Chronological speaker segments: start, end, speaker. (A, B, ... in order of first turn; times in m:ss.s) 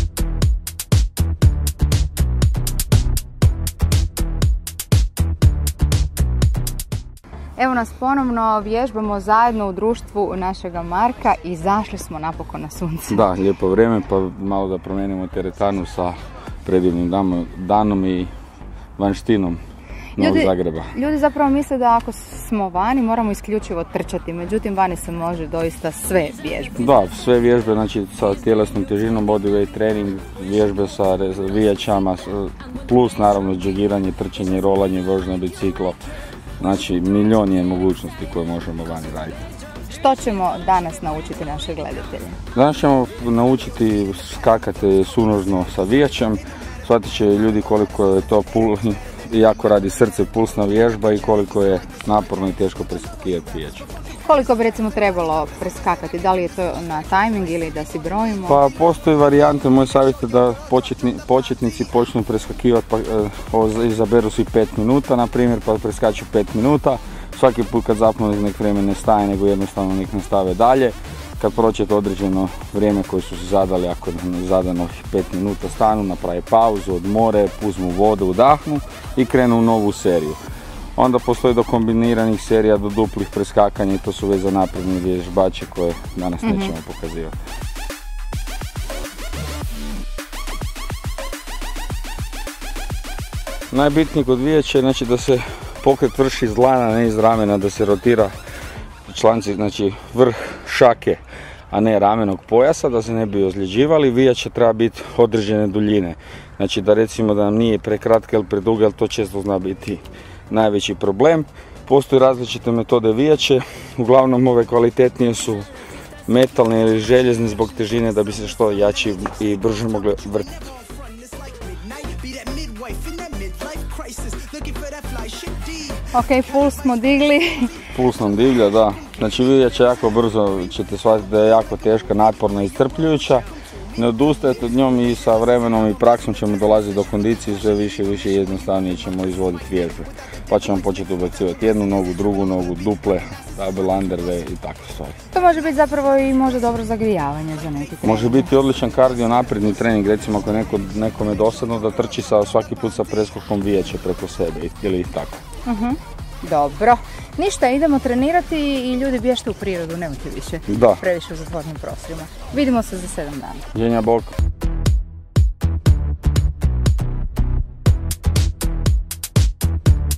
0:07.6-0:13.2 A
0:13.1-0:18.3 B
0:19.0-0:19.6 B
0:20.2-0:20.9 B
0:20.2-0:26.7 A
0:26.8-0:36.0 B
0:36.6-0:39.4 B
0:39.9-0:42.4 A
0:42.5-0:53.8 B
0:54.2-0:58.6 A
0:58.4-1:20.4 B
1:21.0-1:27.3 B
1:26.4-1:26.7 A
1:33.7-1:38.3 B
1:39.1-1:55.7 B
1:56.3-2:00.8 B
2:06.1-2:07.7 A
2:07.9-2:25.2 B
2:25.3-2:28.5 A
2:28.0-2:35.4 B
2:35.6-2:43.7 A
2:40.7-2:41.0 B
2:43.7-2:44.3 B